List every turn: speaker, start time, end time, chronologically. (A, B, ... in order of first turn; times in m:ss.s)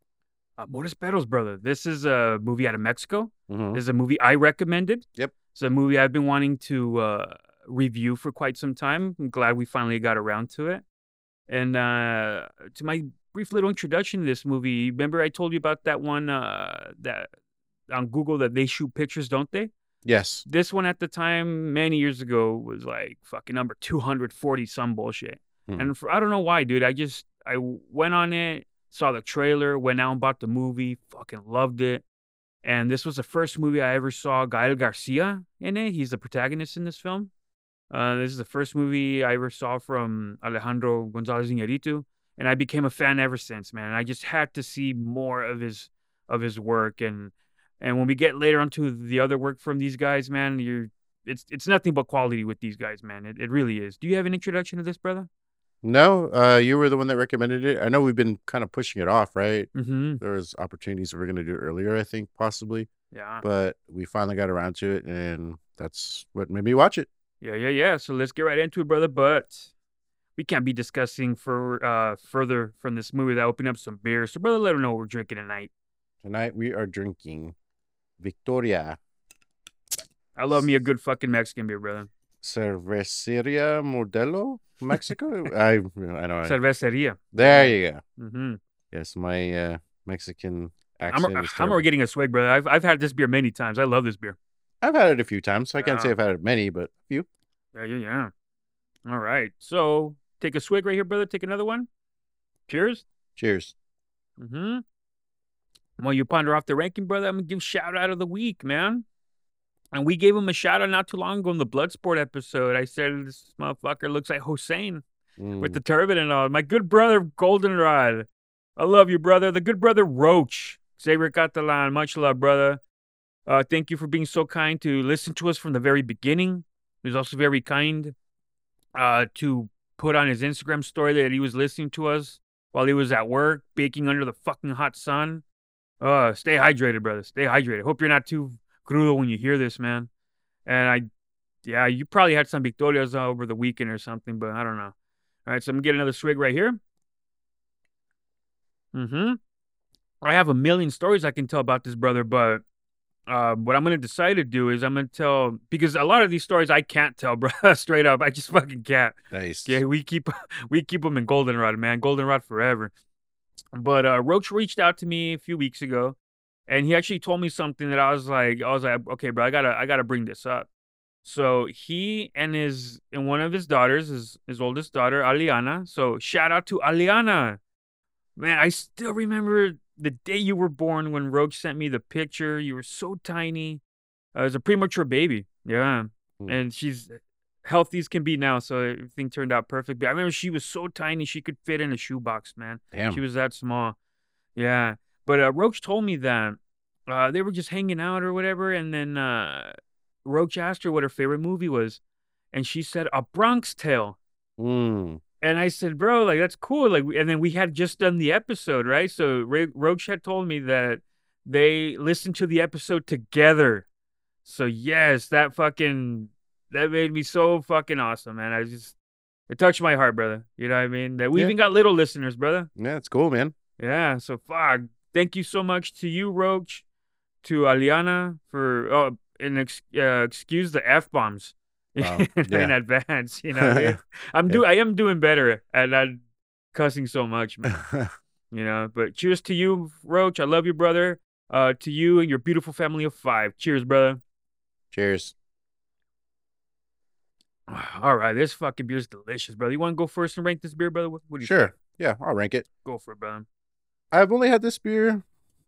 0:00.6-0:10.8 A
0:03.5-0:03.8 B
0:11.5-0:17.3 A
0:17.9-0:19.7 A
0:20.0-0:20.4 B
0:20.4-0:32.0 A
0:25.7-0:25.9 B
0:32.6-0:37.3 A
0:37.9-0:55.3 A
0:55.8-0:59.7 B
0:59.7-1:00.2 A
1:00.2-1:02.9 B
1:03.1-1:03.4 A
1:03.4-1:07.1 B
1:07.4-1:09.7 A
1:10.4-1:15.7 A
1:16.2-1:17.5 B
1:18.2-1:19.0 B
1:20.4-1:22.1 A
1:22.4-1:26.5 B
1:26.4-1:28.6 A
1:27.3-1:28.0 B
1:28.9-1:31.8 B
1:31.1-1:34.4 A
1:34.8-1:37.2 B
1:35.8-1:36.1 A
1:37.7-1:38.3 A
1:39.0-1:41.9 A
1:42.7-1:43.0 A
1:43.4-1:43.7 B
1:44.4-1:44.8 A
1:46.0-1:49.0 A
1:49.9-1:55.0 A
1:55.4-1:55.8 B
1:55.6-2:02.8 A
2:03.4-2:08.1 A
2:08.9-2:15.4 A
2:16.0-2:20.1 A
2:20.6-2:21.0 A
2:21.6-2:24.9 A
2:25.4-2:26.8 A
2:28.9-2:29.4 A
2:30.2-2:32.6 A
2:33.3-2:42.9 A
2:39.3-2:39.8 B
2:43.7-2:50.7 A
2:51.2-2:57.6 A
2:58.4-3:03.8 A
3:04.3-3:14.0 A
3:12.9-3:13.2 B
3:14.6-3:19.7 A
3:20.2-3:22.0 A
3:22.5-3:24.2 A
3:24.6-3:25.2 B
3:25.4-3:33.8 A
3:34.4-3:38.9 A
3:39.5-3:42.7 A
3:42.8-3:43.5 B
3:43.8-3:46.8 A
3:47.4-3:56.2 A
3:52.0-3:52.7 B
3:53.6-3:54.0 B
3:56.7-3:57.7 A
3:57.6-3:58.1 B
3:58.5-4:04.2 A
4:04.9-4:05.3 B
4:07.7-4:11.5 A
4:11.4-4:12.6 B
4:12.8-4:13.4 A
4:14.1-4:15.2 B